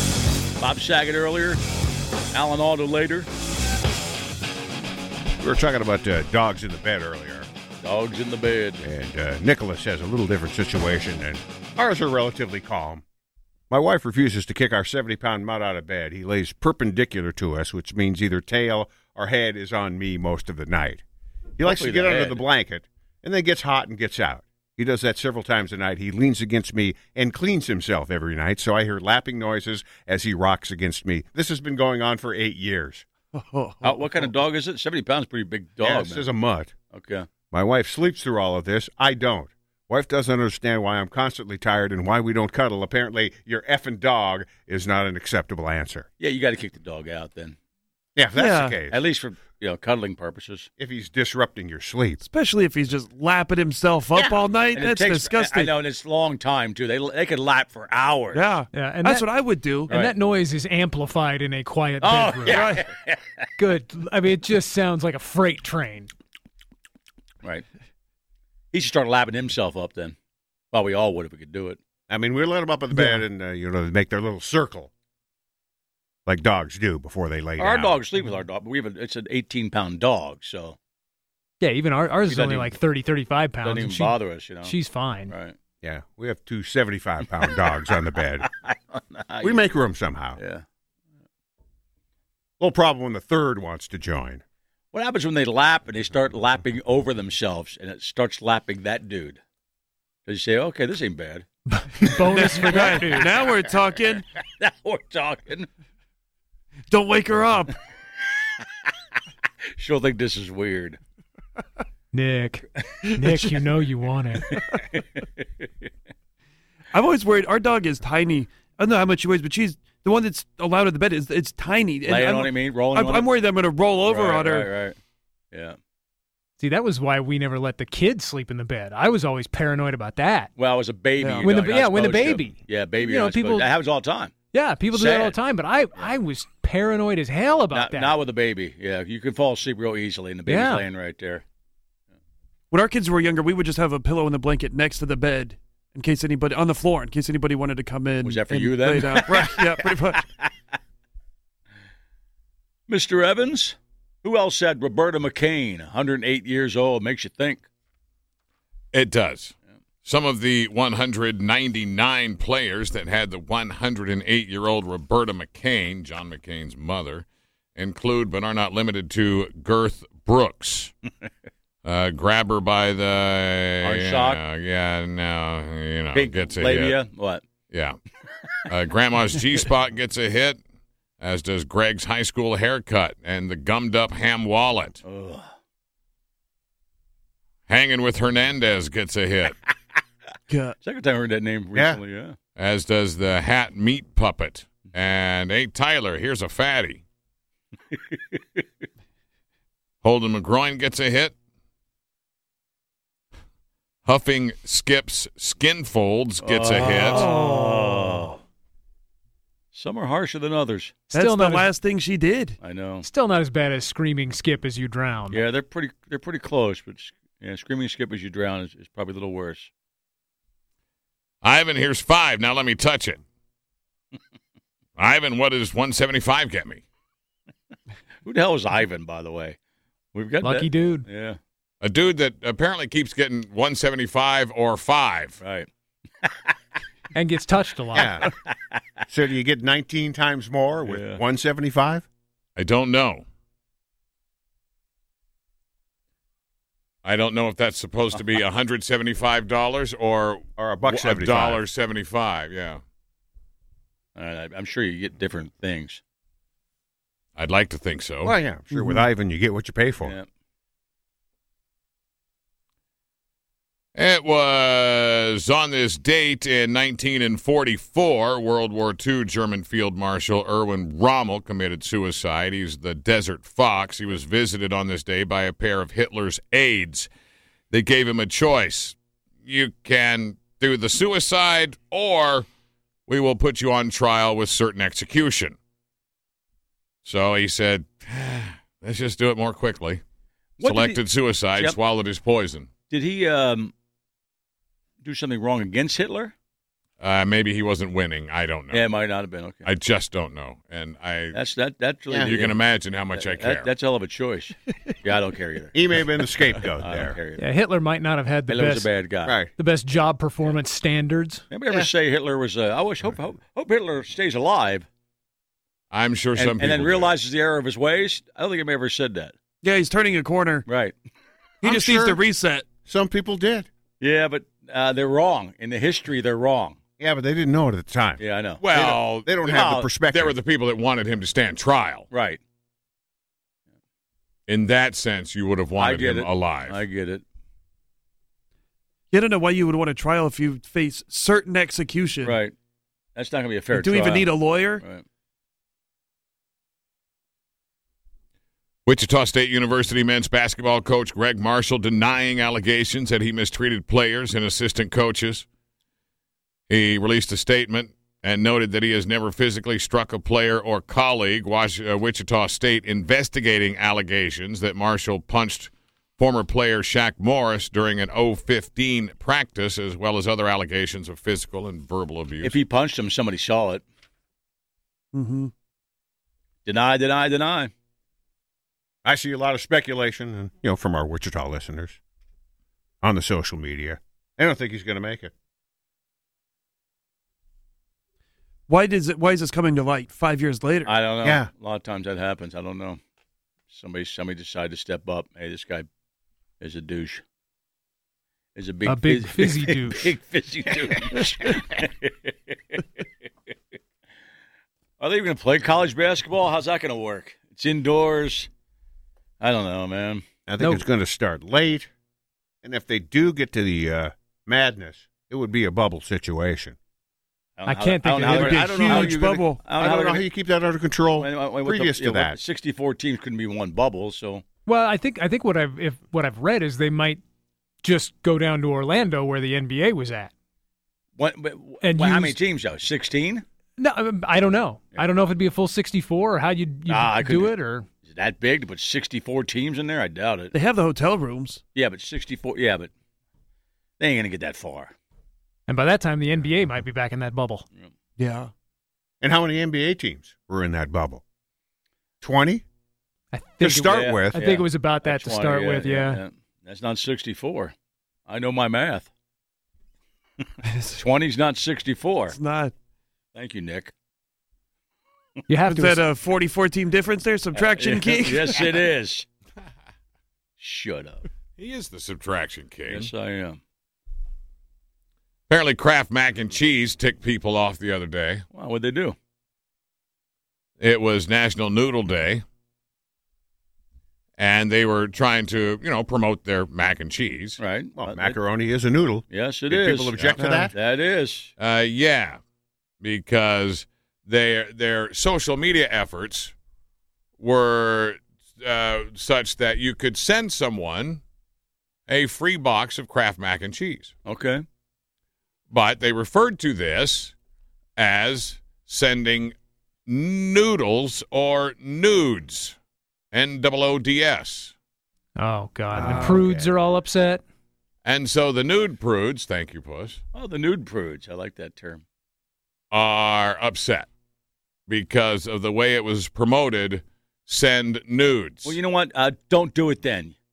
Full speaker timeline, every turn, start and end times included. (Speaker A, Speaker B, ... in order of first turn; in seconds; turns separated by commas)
Speaker A: 0.6-1.6, Speaker A: 2.3-3.3, Speaker B: 5.4-7.5, Speaker A: 7.8-8.8, Speaker B: 8.8-13.0, Speaker B: 13.7-21.0, Speaker B: 21.6-33.0, Speaker A: 21.6-22.4, Speaker C: 33.3-34.1, Speaker A: 33.8-36.3, Speaker B: 35.8-36.7, Speaker A: 36.9-37.3, Speaker B: 37.5-46.0, Speaker A: 46.2-47.6, Speaker B: 48.1-49.0, Speaker C: 48.4-48.8, Speaker A: 48.9-50.7, Speaker B: 50.8-52.2, Speaker C: 52.2-55.7, Speaker A: 54.7-58.5, Speaker C: 58.3-59.9, Speaker D: 58.7-62.8, Speaker A: 59.9-60.1, Speaker A: 62.0-63.2, Speaker C: 62.5-62.8, Speaker D: 63.6-66.1, Speaker A: 68.7-70.2, Speaker A: 70.7-71.8, Speaker B: 72.1-74.9, Speaker B: 76.2-78.0, Speaker A: 77.6-80.8, Speaker D: 81.6-85.3, Speaker A: 82.3-82.7, Speaker A: 83.6-84.7, Speaker A: 85.3-85.5, Speaker B: 85.8-88.5, Speaker A: 88.4-89.6, Speaker B: 89.4-90.4, Speaker A: 90.4-90.6, Speaker B: 92.6-94.4, Speaker A: 94.9-99.4, Speaker A: 100.2-101.5, Speaker D: 101.8-103.3, Speaker C: 102.0-104.2, Speaker A: 102.4-103.5, Speaker A: 104.5-105.7, Speaker C: 106.9-107.8, Speaker A: 109.8-111.0, Speaker D: 112.1-114.6, Speaker A: 114.5-115.6, Speaker C: 116.9-124.7, Speaker A: 122.1-123.3, Speaker A: 124.0-125.0, Speaker A: 125.5-125.8, Speaker D: 126.6-130.5, Speaker A: 130.6-134.3, Speaker C: 131.2-131.5, Speaker D: 131.4-133.7, Speaker D: 134.5-138.1, Speaker A: 134.9-135.4, Speaker A: 137.7-141.4, Speaker D: 140.5-140.8, Speaker C: 142.7-150.2, Speaker A: 148.2-150.5, Speaker A: 152.9-157.7, Speaker E: 158.9-159.5, Speaker E: 160.0-170.9, Speaker E: 171.8-177.0, Speaker A: 173.8-174.4, Speaker A: 176.1-177.4, Speaker E: 177.7-178.0, Speaker E: 178.7-180.6, Speaker E: 181.2-185.0, Speaker A: 185.0-185.5, Speaker E: 187.7-189.6, Speaker C: 190.5-190.8, Speaker A: 190.8-192.3, Speaker B: 191.7-192.0, Speaker E: 192.6-197.0, Speaker E: 200.0-201.3, Speaker E: 204.0-207.3, Speaker A: 206.4-208.4, Speaker C: 207.1-208.3, Speaker A: 209.7-211.0, Speaker C: 211.1-212.6, Speaker D: 211.1-211.7, Speaker A: 212.6-213.1, Speaker D: 213.0-215.4, Speaker A: 215.3-219.7, Speaker E: 221.4-223.2, Speaker E: 225.0-226.8, Speaker A: 228.2-229.6, Speaker A: 230.1-231.4, Speaker D: 230.4-231.0, Speaker E: 231.8-235.4, Speaker A: 235.4-235.7, Speaker D: 237.1-238.2, Speaker B: 237.9-238.3, Speaker B: 239.1-242.1, Speaker A: 240.8-241.2, Speaker E: 242.6-243.2, Speaker E: 247.0-252.8, Speaker B: 250.6-251.6, Speaker A: 254.1-256.0, Speaker E: 257.4-258.3, Speaker B: 258.2-260.1, Speaker C: 258.7-259.0, Speaker E: 263.9-277.1, Speaker E: 277.7-282.5, Speaker E: 283.1-285.6, Speaker E: 287.0-290.0, Speaker A: 290.6-291.0, Speaker E: 290.6-292.7, Speaker A: 292.9-293.7, Speaker A: 295.0-296.3, Speaker E: 297.0-298.9, Speaker A: 298.7-299.7, Speaker E: 299.6-301.4, Speaker A: 301.3-302.6, Speaker E: 302.2-303.7, Speaker A: 303.1-305.7, Speaker B: 305.7-307.2, Speaker A: 306.8-307.4, Speaker D: 307.4-308.9, Speaker A: 308.5-309.4, Speaker B: 309.2-309.5, Speaker D: 309.6-311.4, Speaker A: 311.5-314.9, Speaker E: 315.9-317.1, Speaker A: 316.4-319.3, Speaker C: 319.6-320.6, Speaker A: 320.7-320.9, Speaker C: 321.6-322.7, Speaker B: 321.6-322.2, Speaker B: 322.8-323.7, Speaker A: 324.0-326.8, Speaker B: 327.0-330.4, Speaker A: 328.2-328.6, Speaker E: 328.6-329.4, Speaker A: 329.4-329.9, Speaker E: 330.1-332.1, Speaker A: 332.1-332.4, Speaker E: 334.5-336.8, Speaker A: 335.8-337.2, Speaker C: 339.1-342.4, Speaker A: 342.2-342.5, Speaker A: 343.1-344.3, Speaker C: 343.7-344.8, Speaker E: 348.8-355.4, Speaker E: 356.7-372.6, Speaker A: 372.4-373.8, Speaker C: 375.1-375.5, Speaker A: 376.6-377.7, Speaker B: 379.0-382.0, Speaker B: 383.0-385.3, Speaker C: 388.7-390.9, Speaker A: 390.9-393.0, Speaker B: 391.2-391.5, Speaker A: 393.7-395.9, Speaker A: 396.6-397.2, Speaker A: 398.6-402.8, Speaker D: 398.8-400.1, Speaker A: 405.0-408.5, Speaker A: 409.4-410.2, Speaker B: 410.5-411.9, Speaker B: 412.6-416.8, Speaker A: 417.6-420.2, Speaker D: 417.6-418.6, Speaker C: 418.2-419.6, Speaker B: 418.3-422.4, Speaker A: 421.2-424.4, Speaker D: 424.6-427.2, Speaker D: 427.8-430.3, Speaker A: 431.2-433.4, Speaker D: 431.8-432.4, Speaker D: 433.8-437.9, Speaker A: 436.9-440.5, Speaker C: 440.5-441.6, Speaker A: 441.7-442.9, Speaker A: 444.0-444.9, Speaker D: 445.7-447.6, Speaker C: 448.2-448.5, Speaker B: 449.2-451.2, Speaker B: 452.2-452.6, Speaker D: 453.3-456.2, Speaker B: 453.6-454.4, Speaker A: 453.9-457.7, Speaker A: 458.3-459.1, Speaker C: 460.6-461.0, Speaker A: 460.9-462.4, Speaker C: 462.3-462.7, Speaker A: 463.3-463.9, Speaker D: 465.5-466.0, Speaker C: 465.7-468.6, Speaker A: 467.5-469.2, Speaker A: 470.6-471.2, Speaker E: 471.6-473.1, Speaker A: 472.9-473.6, Speaker E: 475.5-478.4, Speaker A: 478.5-479.1, Speaker E: 480.8-482.4, Speaker E: 484.4-487.6, Speaker A: 487.6-488.4, Speaker B: 488.0-490.7, Speaker A: 489.3-491.5, Speaker C: 490.4-490.7, Speaker E: 491.6-492.4, Speaker E: 493.0-496.5, Speaker E: 497.4-501.2, Speaker E: 502.1-504.1, Speaker A: 504.2-504.6, Speaker E: 505.7-507.3, Speaker E: 508.0-509.5, Speaker E: 510.1-512.8, Speaker E: 513.3-514.7, Speaker D: 515.4-517.4, Speaker C: 516.0-516.5, Speaker B: 516.0-516.7, Speaker E: 518.0-520.2, Speaker A: 520.3-522.0, Speaker E: 522.9-524.1, Speaker E: 524.9-528.8, Speaker A: 528.6-530.4